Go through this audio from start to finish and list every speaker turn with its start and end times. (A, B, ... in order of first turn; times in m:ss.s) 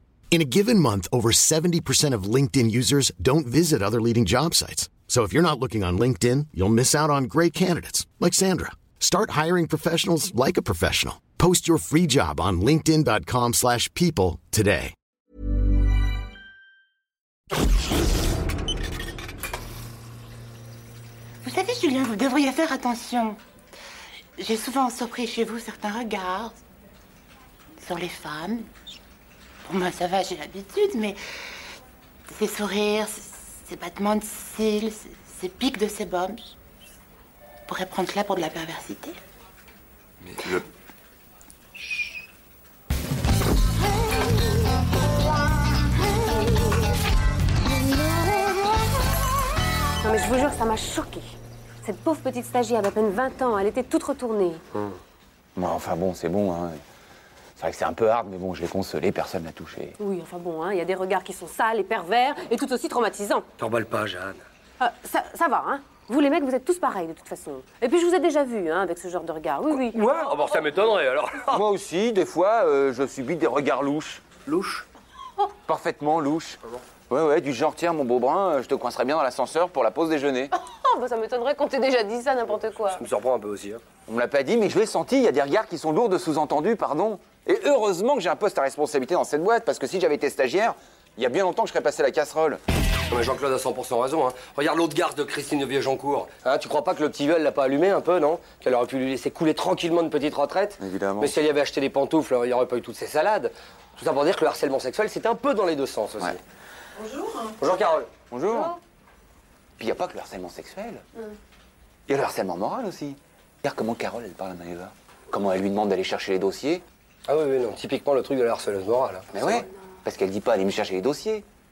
0:00.3-0:14.9 A
0:21.4-0:23.4 B
0:24.4-0:26.6 B
0:27.8-0:28.7 B
0:29.6-0:31.2 B
0:32.3-0:36.6 B
0:37.7-0:39.2 B
0:50.0-0:54.6 C
0:55.6-0:56.8 D
0:57.6-1:00.0 D
1:00.0-1:03.4 C
1:03.6-1:04.4 E
1:04.8-1:10.0 C
1:09.7-1:11.6 E
1:11.5-1:14.8 D
1:15.6-1:20.5 D
1:20.6-1:23.0 C
1:22.8-1:23.8 E
1:24.1-1:32.6 D
1:33.1-1:46.4 E
1:40.8-1:41.3 D
1:47.1-1:47.5 C
1:47.5-1:48.1 E
1:48.3-1:48.8 D
1:49.8-1:51.0 D
1:52.1-1:56.8 D
1:57.2-1:59.6 E
1:59.3-2:01.4 D